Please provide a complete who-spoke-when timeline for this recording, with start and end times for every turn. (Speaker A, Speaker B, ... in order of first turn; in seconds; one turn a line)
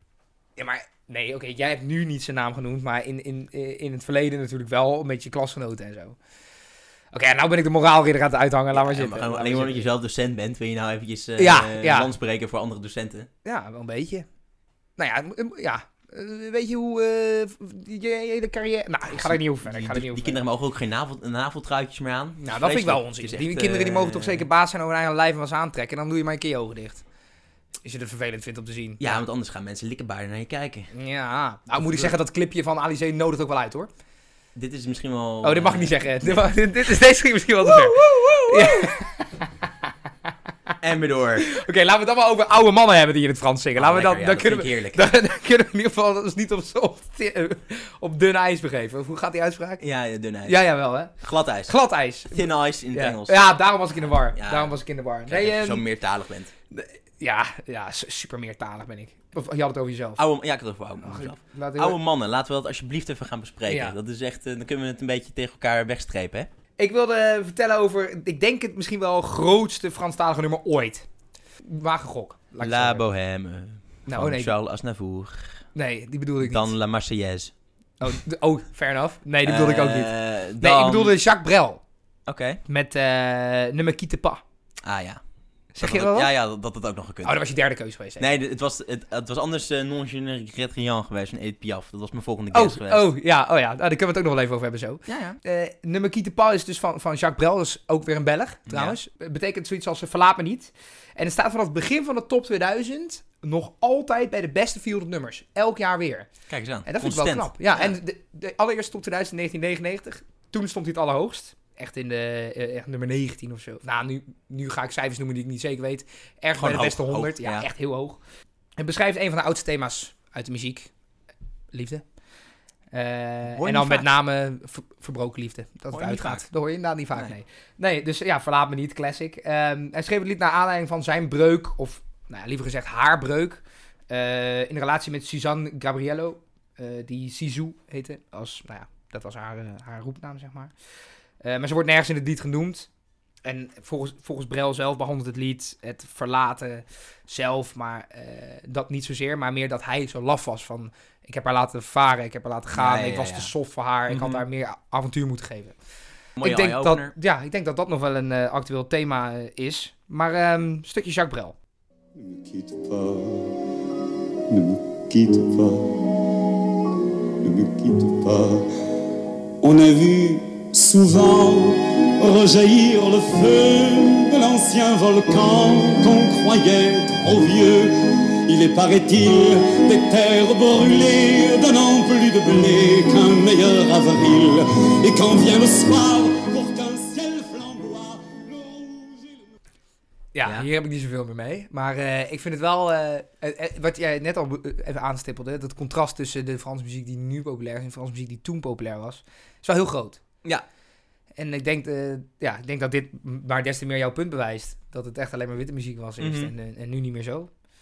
Speaker A: 0.6-6.2
Speaker A: 7.1-9.9
Speaker B: 8.7-13.3
Speaker A: 11.4-12.1
Speaker A: 13.4-14.2
Speaker A: 15.0-20.4
Speaker B: 19.1-24.4
Speaker A: 22.4-27.0
Speaker A: 27.8-29.2
Speaker B: 29.0-30.9
Speaker A: 30.9-33.9
Speaker B: 31.8-32.1
Speaker B: 34.5-36.5
Speaker A: 35.4-39.4
Speaker B: 37.6-38.9
Speaker B: 40.8-41.5
Speaker A: 41.4-49.8
Speaker B: 43.8-45.1
Speaker B: 49.8-51.7
Speaker A: 50.5-51.1
Speaker A: 51.7-55.8
Speaker B: 52.3-54.8
Speaker B: 55.3-56.5
Speaker A: 56.7-60.2
Speaker B: 60.2-66.5
Speaker A: 61.0-62.0
Speaker A: 63.7-63.9
Speaker A: 66.8-71.0
Speaker A: 71.6-73.0
Speaker B: 72.6-75.6
Speaker A: 74.1-74.5
Speaker A: 75.7-76.7
Speaker B: 76.4-77.5
Speaker A: 78.0-81.8
Speaker B: 79.4-81.2
Speaker B: 82.3-82.6
Speaker A: 82.7-84.4
Speaker B: 84.8-85.2
Speaker A: 85.7-86.3
Speaker B: 85.8-87.4
Speaker A: 87.2-88.3
Speaker B: 88.2-93.1
Speaker A: 92.5-106.3
Speaker B: 95.1-95.4
Speaker B: 98.7-99.0
Speaker B: 106.5-108.0
Speaker A: 106.8-118.2
Speaker B: 116.6-117.7
Speaker A: 118.8-120.9
Speaker A: 121.7-122.0
Speaker A: 122.9-140.7
Speaker B: 123.5-124.1
Speaker B: 125.9-126.4
Speaker A: 141.4-142.9
Speaker A: 143.4-155.7
Speaker B: 152.7-153.5
Speaker B: 154.1-154.4
Speaker B: 156.4-157.1
Speaker A: 156.4-161.6
Speaker C: 162.2-163.6
Speaker C: 164.5-166.0
Speaker C: 167.4-168.7
Speaker C: 169.6-189.5
Speaker A: 190.3-200.2
Speaker A: 201.4-207.5
Speaker B: 206.2-206.5